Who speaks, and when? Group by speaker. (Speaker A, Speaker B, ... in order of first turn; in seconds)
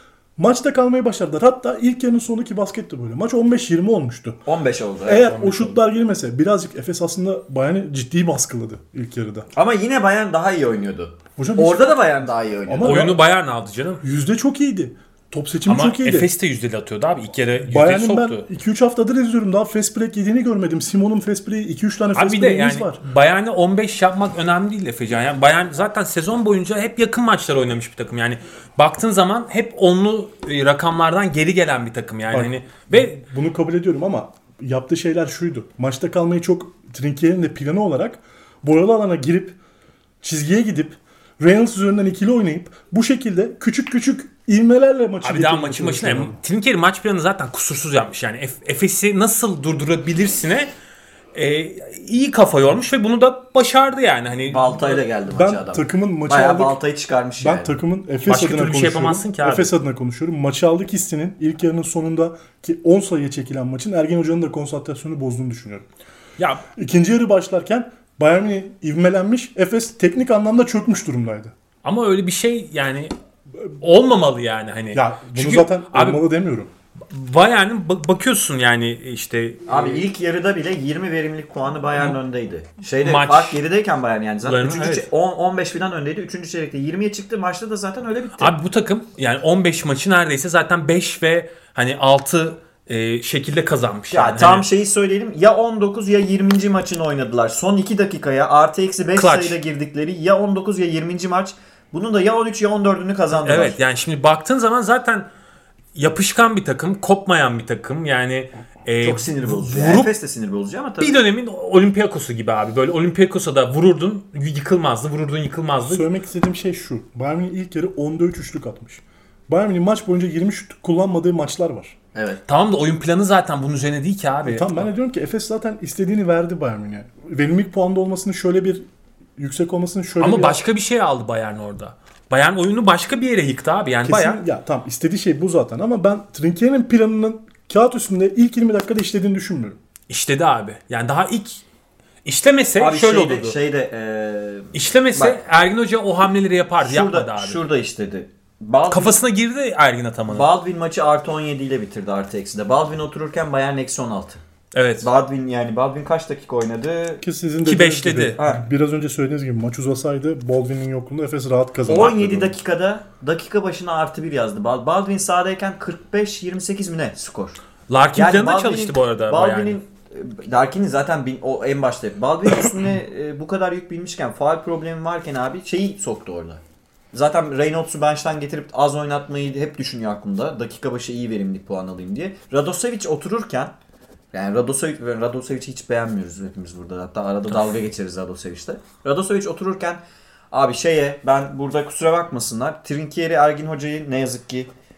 Speaker A: 0.4-4.4, 5.1-9.5, 11.4-12.1, 12.7-13.2, 14.0-16.3, 17.6-23.0, 32.3-39.6, 40.2-46.4, 55.3-56.8, 57.4-65.9, 66.8-71.5, 74.9-76.7, 115.9-122.0, 124.4-128.9, 129.4-130.6, 134.0-139.8, 157.2-162.5
Speaker B: 4.5-5.5, 9.6-13.1, 54.5-57.8, 79.7-88.5, 94.1-103.8, 109.0-111.2, 122.2-122.4, 142.8-145.4, 146.8-149.2, 150.3-154.4, 155.0-157.2, 158.4-158.7, 161.9-167.6, 168.2-176.6, 177.1-183.7, 184.3-190.0, 190.5-194.7
Speaker C: 5.4-5.8, 12.8-14.0, 15.7-18.4, 22.1-33.2, 45.2-50.7, 51.3-55.0, 58.3-59.7, 66.4-66.6, 71.8-73.1, 73.8-76.2, 77.1-80.0, 83.0-83.6, 84.4-85.1, 88.4-94.7, 99.2-99.6, 103.4-105.3, 106.0-110.1, 111.0-116.1, 122.5-124.9, 130.2-134.4, 140.1-141.7, 142.2-143.6, 144.7-147.6, 148.9-150.5, 154.7-155.1, 157.7-158.4, 161.9-162.4, 167.9-169.8